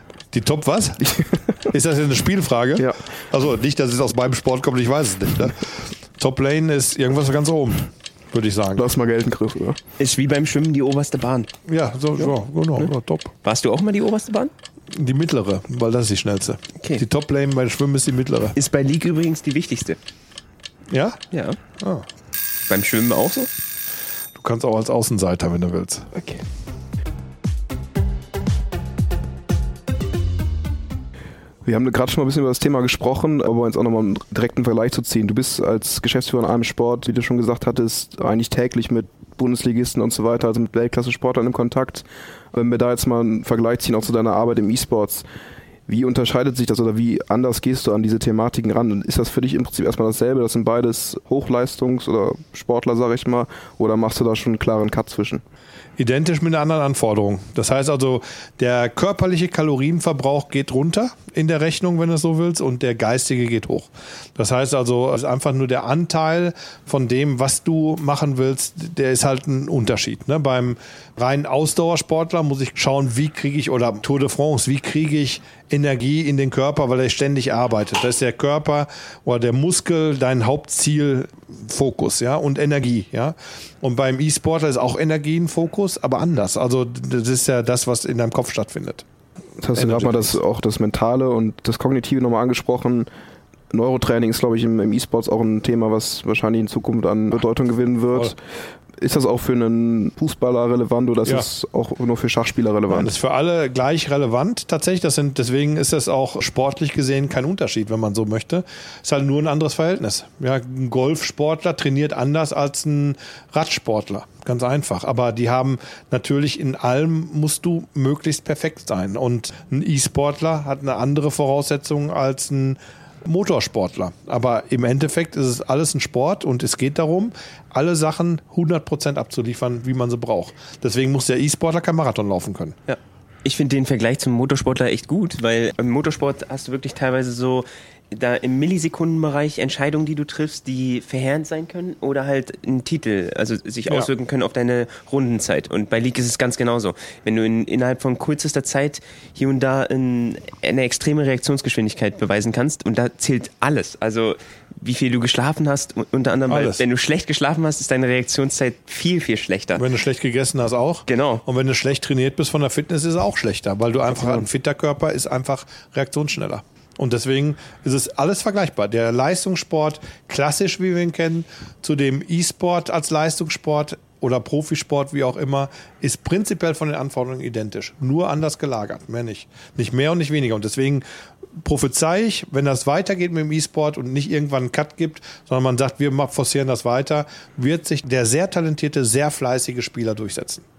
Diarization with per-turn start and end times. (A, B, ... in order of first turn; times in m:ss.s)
0:00.3-0:08.8 A
0:01.0-0:01.6 B
0:08.7-0:09.8 B
0:10.0-0:11.5 C
0:11.7-0:13.3 A
0:12.2-0:12.9 C
0:13.4-0:14.5 C
0:14.9-0:18.6 A
0:18.6-0:20.0 C
0:20.9-0:21.2 A
0:21.3-0:21.6 C
0:21.8-0:22.0 A
0:22.7-0:23.5 C
0:24.4-0:26.1 A
0:26.1-0:26.4 C
0:31.6-0:45.2 B
0:45.9-0:55.4 B
0:56.0-1:29.0 A
1:29.6-1:33.1 B
1:29.7-1:30.4 A
1:33.7-1:38.4 B
1:39.0-1:43.1 B
1:42.9-2:12.8 A
2:12.9-2:39.8 C
2:36.5-2:36.8 A
2:39.8-3:01.0 A
2:41.1-2:41.4 C
2:44.1-2:44.4 C
3:01.6-3:10.6 A